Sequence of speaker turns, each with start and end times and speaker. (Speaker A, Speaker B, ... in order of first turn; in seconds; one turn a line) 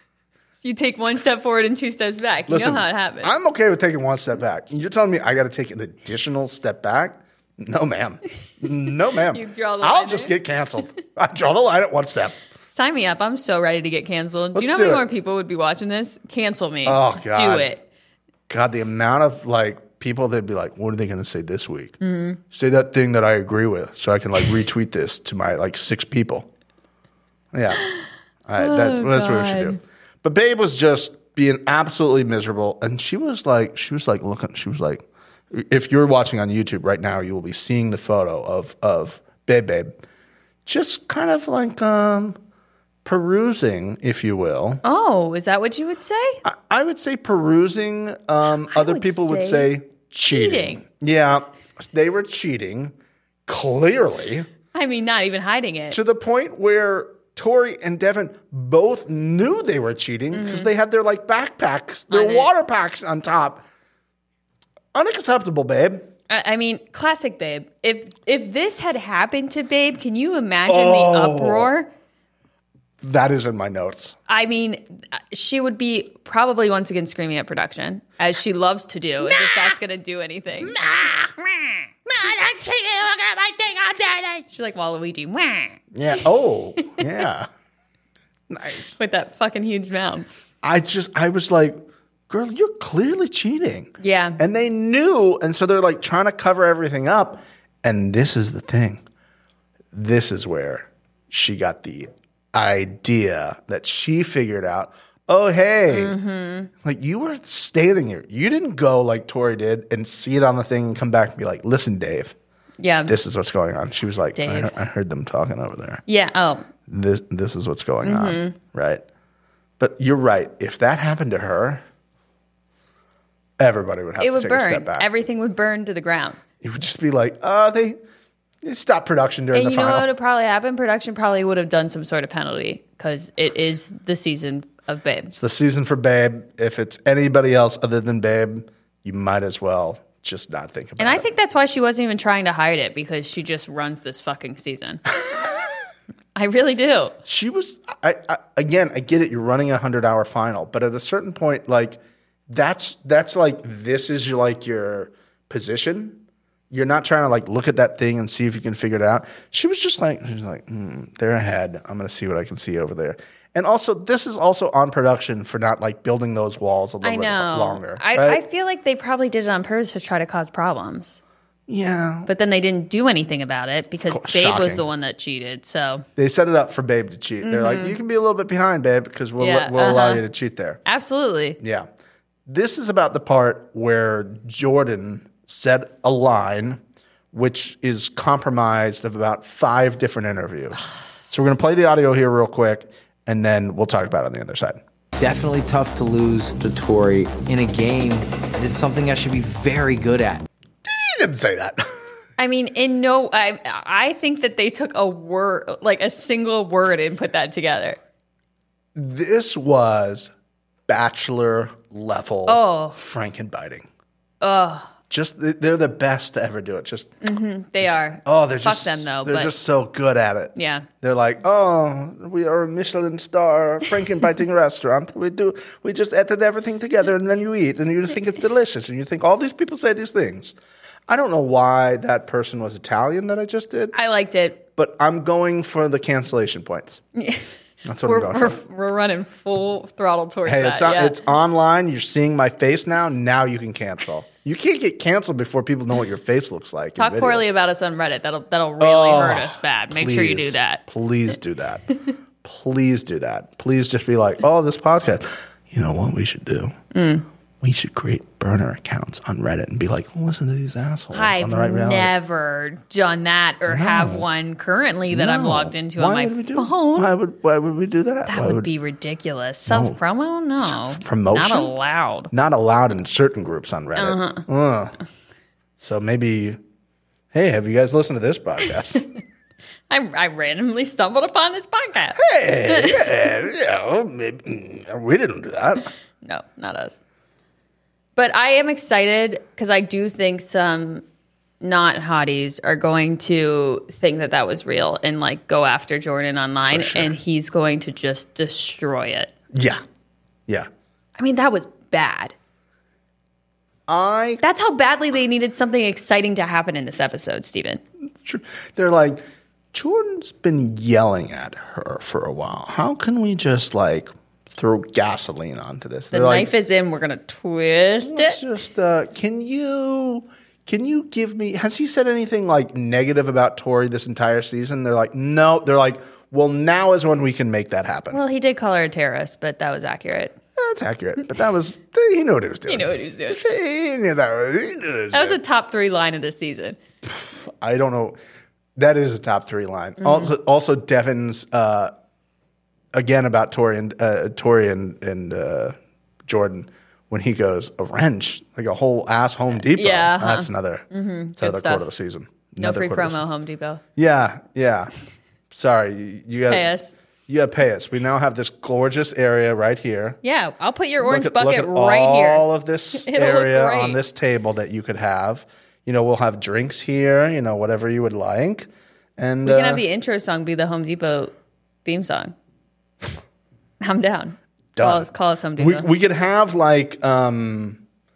Speaker A: 0.6-3.3
Speaker B: 2.5-12.4
Speaker A: 9.3-10.3
Speaker A: 12.7-17.8
Speaker B: 14.5-15.0
Speaker B: 16.8-17.7
Speaker B: 18.5-22.0
Speaker A: 22.0-22.4
Speaker B: 22.5-26.5
Speaker B: 27.5-27.9
Speaker B: 28.4-39.9
Speaker A: 28.6-29.8
Speaker B: 40.6-42.4
Speaker B: 43.0-44.8
Speaker A: 44.8-46.4
Speaker B: 46.4-52.9
Speaker A: 48.7-49.7
Speaker A: 50.2-50.8
Speaker B: 53.5-54.5
Speaker A: 54.7-56.0
Speaker B: 55.9-63.6
Speaker A: 60.3-60.7
Speaker A: 62.1-62.5
Speaker B: 64.9-66.0
Speaker A: 66.3-71.9
Speaker B: 70.7-71.7
Speaker B: 73.0-74.1
Speaker A: 74.3-80.8
Speaker B: 79.2-79.8
Speaker B: 80.6-84.4
Speaker A: 84.5-86.2
Speaker B: 85.9-87.5
Speaker B: 88.5-89.0
Speaker A: 89.0-90.3
Speaker B: 90.6-91.8
Speaker B: 92.3-99.0
Speaker A: 94.0-94.4
Speaker B: 99.9-106.2
Speaker A: 105.9-106.7
Speaker B: 106.8-112.3
Speaker A: 112.8-113.1
Speaker B: 113.1-116.0
Speaker A: 114.3-114.8
Speaker A: 116.1-116.7
Speaker B: 116.9-119.0
Speaker A: 118.0-118.5
Speaker B: 119.8-121.8
Speaker B: 123.6-125.1
Speaker A: 124.2-126.4
Speaker B: 126.6-128.0
Speaker B: 128.6-130.1
Speaker A: 129.5-135.3
Speaker B: 135.3-141.2
Speaker A: 141.0-145.0
Speaker A: 146.3-147.2
Speaker B: 147.2-152.0
Speaker B: 152.5-168.4
Speaker A: 167.0-171.2
Speaker B: 171.7-172.3
Speaker A: 172.2-176.0
Speaker B: 174.1-174.8
Speaker B: 176.2-180.8
Speaker A: 177.4-178.0
Speaker A: 179.4-180.2
Speaker A: 180.8-181.6
Speaker B: 181.6-181.9
Speaker B: 182.5-186.8
Speaker B: 187.3-194.8
Speaker C: 195.2-200.4
Speaker B: 200.8-201.8
Speaker A: 202.4-208.0
Speaker B: 208.9-210.3
Speaker B: 210.9-213.9
Speaker A: 212.5-213.0
Speaker A: 214.4-214.9
Speaker B: 215.1-217.1
Speaker A: 217.2-219.5
Speaker B: 217.8-230.6
Speaker A: 220.5-220.9
Speaker B: 231.1-233.9
Speaker A: 233.9-234.6
Speaker B: 234.8-237.0
Speaker A: 237.2-237.5
Speaker B: 237.8-238.6
Speaker A: 238.0-241.2
Speaker B: 240.4-247.5
Speaker A: 247.0-250.8
Speaker B: 248.8-251.9
Speaker B: 252.4-256.7
Speaker A: 256.9-257.2
Speaker B: 257.6-262.1
Speaker A: 261.1-267.1
Speaker B: 263.7-264.2
Speaker B: 265.1-268.7
Speaker A: 268.3-272.3
Speaker B: 269.7-270.0
Speaker B: 270.6-271.7
Speaker B: 272.3-274.9
Speaker A: 273.9-274.4
Speaker B: 275.8-276.6
Speaker B: 277.3-279.0
Speaker A: 279.9-283.1
Speaker B: 282.1-285.9
Speaker A: 286.2-287.0
Speaker A: 288.1-291.0
Speaker A: 291.6-299.3
Speaker B: 296.6-297.1
Speaker B: 299.5-299.8
Speaker A: 301.2-302.3
Speaker B: 303.9-304.4
Speaker A: 304.4-307.8
Speaker B: 308.2-309.2
Speaker B: 309.7-316.5
Speaker A: 316.1-318.4
Speaker B: 318.0-328.2
Speaker A: 328.1-330.4
Speaker B: 330.6-335.4
Speaker A: 332.7-333.5
Speaker A: 335.1-336.8
Speaker B: 337.1-338.2
Speaker B: 338.8-341.9
Speaker A: 340.0-340.3
Speaker B: 342.9-350.9
Speaker A: 349.6-351.8
Speaker B: 351.4-353.2
Speaker A: 352.6-353.8
Speaker B: 353.9-354.9
Speaker B: 355.5-356.7
Speaker A: 356.5-356.9
Speaker B: 357.3-360.2
Speaker A: 360.2-362.4
Speaker B: 361.0-369.8
Speaker A: 362.9-364.0
Speaker A: 369.4-371.3
Speaker A: 371.8-372.3
Speaker A: 373.8-375.9
Speaker B: 374.8-377.8